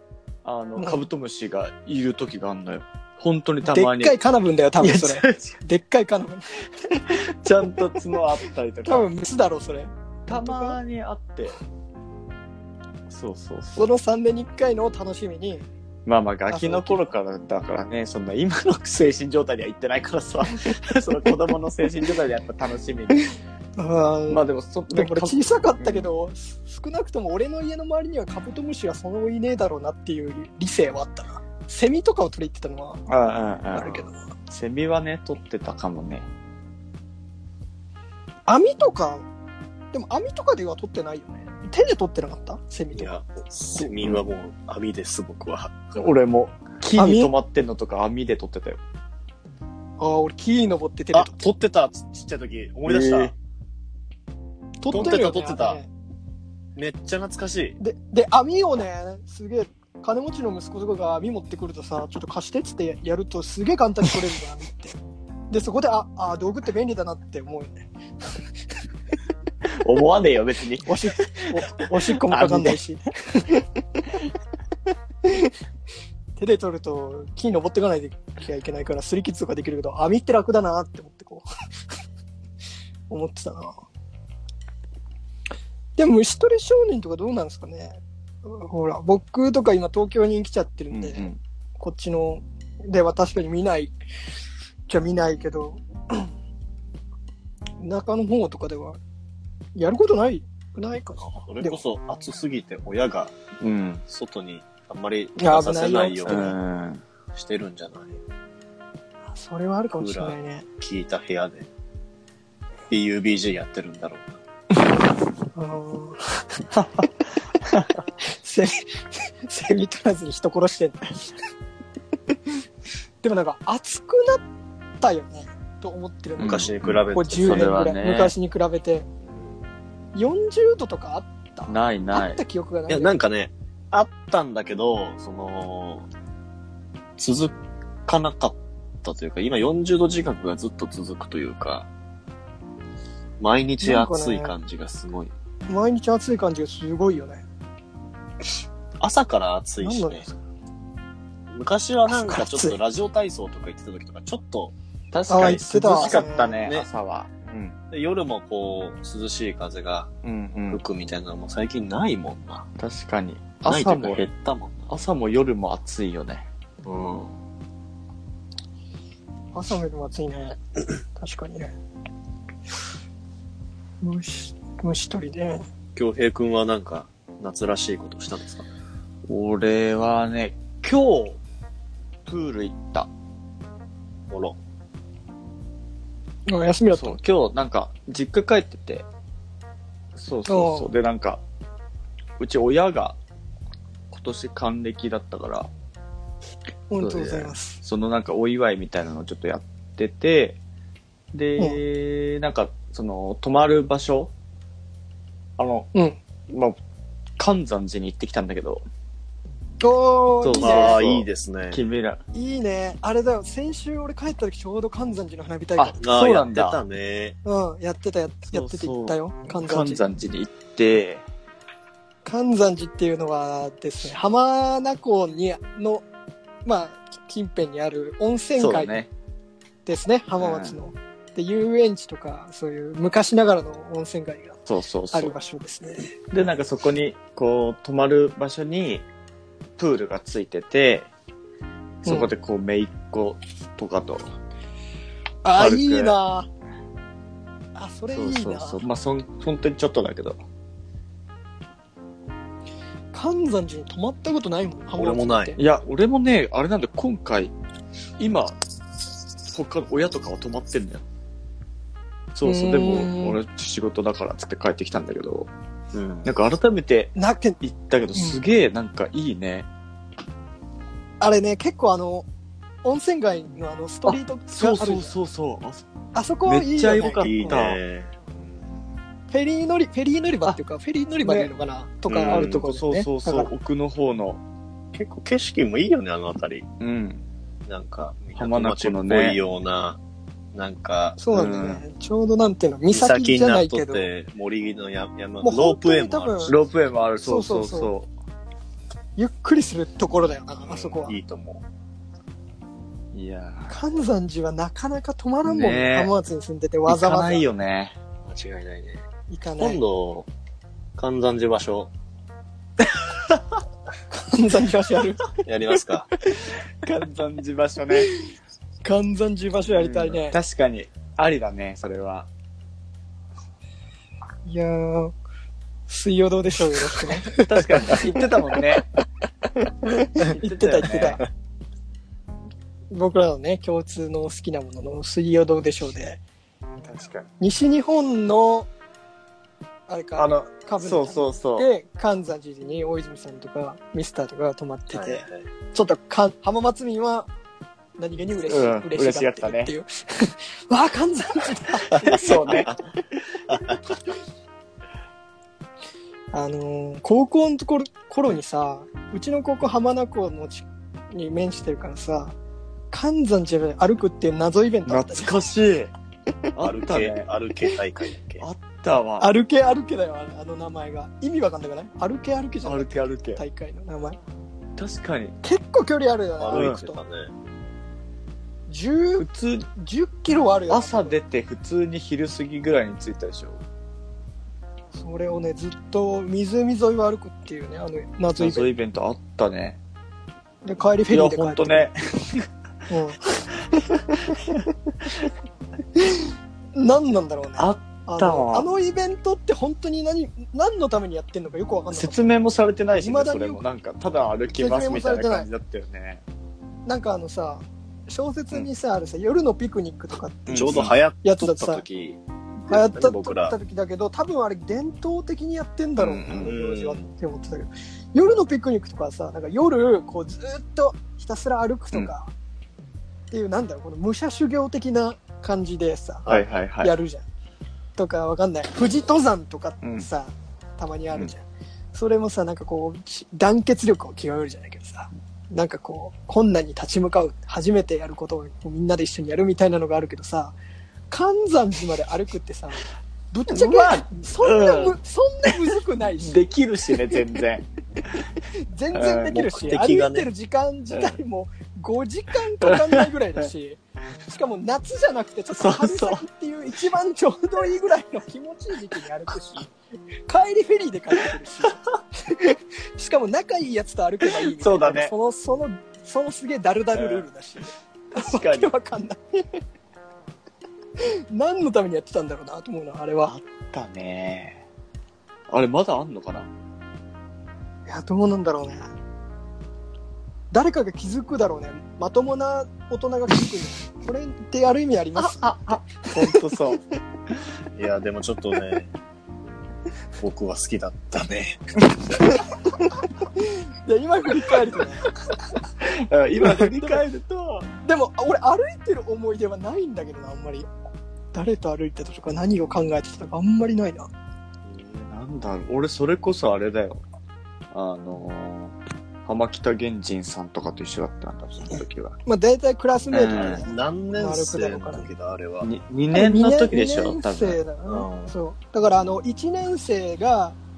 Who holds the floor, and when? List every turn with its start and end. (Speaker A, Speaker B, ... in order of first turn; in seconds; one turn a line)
Speaker A: 0.4-4.2
Speaker B: 0.8-1.0
Speaker B: 3.6-7.2
Speaker A: 4.8-5.6
Speaker A: 7.1-9.1
Speaker B: 8.8-10.8
Speaker A: 10.3-11.6
Speaker A: 13.1-13.9
Speaker B: 13.8-15.7
Speaker A: 16.1-23.3
Speaker B: 16.5-17.1
Speaker B: 23.8-33.0
Speaker A: 24.3-26.1
Speaker A: 33.1-36.3
Speaker B: 33.7-34.2
Speaker B: 38.5-39.2
Speaker B: 39.9-43.2
Speaker C: 42.9-46.1
Speaker A: 46.0-48.8
Speaker B: 47.0-47.3
Speaker B: 50.0-51.4
Speaker C: 51.1-53.3
Speaker A: 52.9-53.3
Speaker B: 54.8-55.9
Speaker C: 54.9-55.8
Speaker C: 56.8-57.8
Speaker B: 57.8-65.0
Speaker B: 65.5-67.9
Speaker A: 69.6-72.8
Speaker B: 70.9-73.5
Speaker B: 76.4-81.5
Speaker B: 83.1-83.8
Speaker B: 86.0-93.9
Speaker A: 90.9-91.4
Speaker B: 94.9-96.3
Speaker B: 97.8-99.0
Speaker B: 99.8-101.8
Speaker C: 101.3-103.3
Speaker A: 103.6-104.0
Speaker C: 104.1-106.5
Speaker B: 105.4-106.6
Speaker A: 106.2-107.0
Speaker C: 107.3-108.2
Speaker B: 109.3-110.6
Speaker C: 110.0-111.7
Speaker C: 112.9-114.4
Speaker B: 115.5-116.4
Speaker A: 116.7-117.1
Speaker B: 118.3-121.3
Speaker B: 123.2-124.4
Speaker B: 125.0-129.1
Speaker A: 126.4-128.3
Speaker C: 126.4-127.7
Speaker B: 130.1-133.1
Speaker A: 131.7-132.4
Speaker C: 132.9-136.1
Speaker C: 137.2-141.9
Speaker C: 143.4-145.3
Speaker B: 143.8-144.6
Speaker B: 145.7-147.4
Speaker C: 149.0-150.3
Speaker B: 149.8-150.3
Speaker C: 151.5-154.7
Speaker B: 152.1-152.8
Speaker A: 155.1-157.8
Speaker B: 155.3-156.6
Speaker C: 155.3-156.9
Speaker C: 157.9-160.1
Speaker A: 160.2-160.8
Speaker C: 160.7-162.7
Speaker A: 162.8-164.2
Speaker C: 163.6-164.9
Speaker A: 164.9-166.5
Speaker C: 166.8-167.3
Speaker B: 169.5-170.6
Speaker B: 171.1-171.7
Speaker B: 174.0-175.6
Speaker C: 175.9-178.7
Speaker A: 179.2-181.4
Speaker A: 182.2-183.1
Speaker C: 184.3-184.6
Speaker B: 186.5-187.2
Speaker A: 186.9-189.1
Speaker A: 190.1-191.4
Speaker B: 190.5-190.9
Speaker A: 192.4-193.2
Speaker A: 194.1-195.7
Speaker B: 196.9-197.8
Speaker A: 197.0-200.6
Speaker A: 201.3-204.3
Speaker A: 205.6-205.9
Speaker B: 205.9-206.2
Speaker A: 206.5-206.8
Speaker A: 207.4-208.8
Speaker B: 209.8-211.1
Speaker A: 210.4-212.2
Speaker C: 210.6-211.8
Speaker B: 212.3-216.0
Speaker A: 215.8-216.8
Speaker C: 216.0-217.4
Speaker B: 217.4-220.0
Speaker A: 218.5-221.2
Speaker B: 222.2-226.0
Speaker B: 226.7-229.0
Speaker A: 228.6-229.1
Speaker B: 229.9-234.6
Speaker A: 230.4-230.8
Speaker A: 234.7-235.4
Speaker B: 235.1-236.1
Speaker A: 236.3-239.0
Speaker A: 239.8-241.1
Speaker A: 242.0-244.3
Speaker B: 242.1-242.3
Speaker B: 245.4-246.5
Speaker A: 245.6-246.2
Speaker B: 247.7-248.8
Speaker A: 248.1-250.4
Speaker B: 253.1-255.6
Speaker C: 254.9-255.6
Speaker A: 255.6-257.5
Speaker A: 258.2-258.6
Speaker A: 259.5-261.0
Speaker A: 262.3-265.5
Speaker B: 262.4-263.4
Speaker C: 265.9-266.3
Speaker A: 266.2-269.7
Speaker B: 267.1-267.6
Speaker B: 268.1-268.4
Speaker B: 271.2-272.2
Speaker B: 272.8-275.1
Speaker A: 274.1-275.9
Speaker B: 276.1-277.6
Speaker A: 276.4-277.8
Speaker C: 276.9-278.4
Speaker B: 279.3-283.5
Speaker A: 281.2-281.5
Speaker C: 282.1-282.7
Speaker A: 282.2-284.4
Speaker C: 284.9-286.7
Speaker A: 286.8-287.2
Speaker C: 287.7-290.0
Speaker A: 288.4-289.4
Speaker C: 290.5-291.2
Speaker B: 291.2-294.1
Speaker A: 291.3-291.8
Speaker C: 292.9-296.6
Speaker B: 295.4-296.6
Speaker A: 296.5-298.1
Speaker B: 297.2-297.9
Speaker B: 299.2-301.1
Speaker C: 300.6-301.6
Speaker A: 303.1-303.8
Speaker B: 303.7-307.4
Speaker A: 305.4-306.1
Speaker A: 306.9-307.9
Speaker C: 308.2-309.1
Speaker B: 309.3-309.8
Speaker C: 309.6-310.3
Speaker C: 311.0-311.9
Speaker B: 314.1-315.3
Speaker C: 315.4-316.1
Speaker A: 316.4-318.1
Speaker B: 318.8-320.4
Speaker A: 319.7-322.3
Speaker B: 324.4-325.1
Speaker B: 325.9-328.1
Speaker A: 327.3-328.9
Speaker A: 330.0-331.2
Speaker B: 330.2-331.2
Speaker B: 332.9-336.2
Speaker A: 336.8-337.3
Speaker B: 337.4-338.7
Speaker B: 339.9-347.3
Speaker A: 340.2-341.7
Speaker C: 344.9-345.5
Speaker B: 348.0-352.3
Speaker A: 348.5-349.7
Speaker A: 351.9-352.7
Speaker C: 352.4-352.8
Speaker C: 353.5-353.8
Speaker B: 356.3-362.4
Speaker B: 362.9-365.4
Speaker A: 364.9-365.9
Speaker A: 366.5-367.3
Speaker C: 366.6-368.5
Speaker A: 368.4-369.3
Speaker B: 369.2-374.2
Speaker A: 372.6-373.4
Speaker A: 374.8-375.4
Speaker B: 375.4-377.0
Speaker C: 376.4-377.3
Speaker A: 376.5-376.8
Speaker B: 378.7-381.2
Speaker A: 379.2-379.7
Speaker A: 380.7-383.6
Speaker B: 384.9-388.7
Speaker A: 388.4-389.8
Speaker B: 390.6-391.9
Speaker A: 391.1-392.5
Speaker B: 392.9-393.4
Speaker A: 394.2-394.6
Speaker B: 396.8-402.2
Speaker A: 397.6-398.7
Speaker A: 401.9-406.2
Speaker B: 402.9-403.6
Speaker B: 404.5-405.5
Speaker B: 406.9-411.8
Speaker A: 410.5-410.9
Speaker C: 410.5-413.6
Speaker B: 412.7-422.3
Speaker A: 416.0-416.5
Speaker C: 416.4-417.1
Speaker B: 423.3-426.3
Speaker C: 426.2-426.6
Speaker A: 426.3-426.9
Speaker B: 426.8-427.2
Speaker B: 428.0-440.6
Speaker A: 429.8-430.1
Speaker B: 441.1-446.5
Speaker A: 443.5-444.9
Speaker A: 446.2-448.2
Speaker B: 448.6-459.7
Speaker A: 448.9-449.6
Speaker C: 449.3-450.3
Speaker A: 450.9-451.2
Speaker A: 452.6-453.1
Speaker A: 455.6-456.2
Speaker B: 460.3-469.4
Speaker A: 464.4-465.1
Speaker A: 466.9-467.3
Speaker A: 468.1-468.7
Speaker B: 471.0-473.3
Speaker A: 473.2-474.6
Speaker A: 475.5-476.5
Speaker B: 477.9-478.9
Speaker B: 480.5-486.3
Speaker A: 485.2-486.8
Speaker C: 487.8-488.9
Speaker C: 490.2-491.8
Speaker B: 493.4-495.1
Speaker A: 495.8-497.7
Speaker B: 496.5-496.8
Speaker B: 497.8-500.7
Speaker B: 501.3-504.1
Speaker A: 504.7-507.0
Speaker A: 507.7-512.1
Speaker B: 512.2-515.1
Speaker A: 513.1-513.7
Speaker C: 513.3-515.7
Speaker A: 515.6-517.6
Speaker B: 516.1-520.6
Speaker C: 517.9-518.4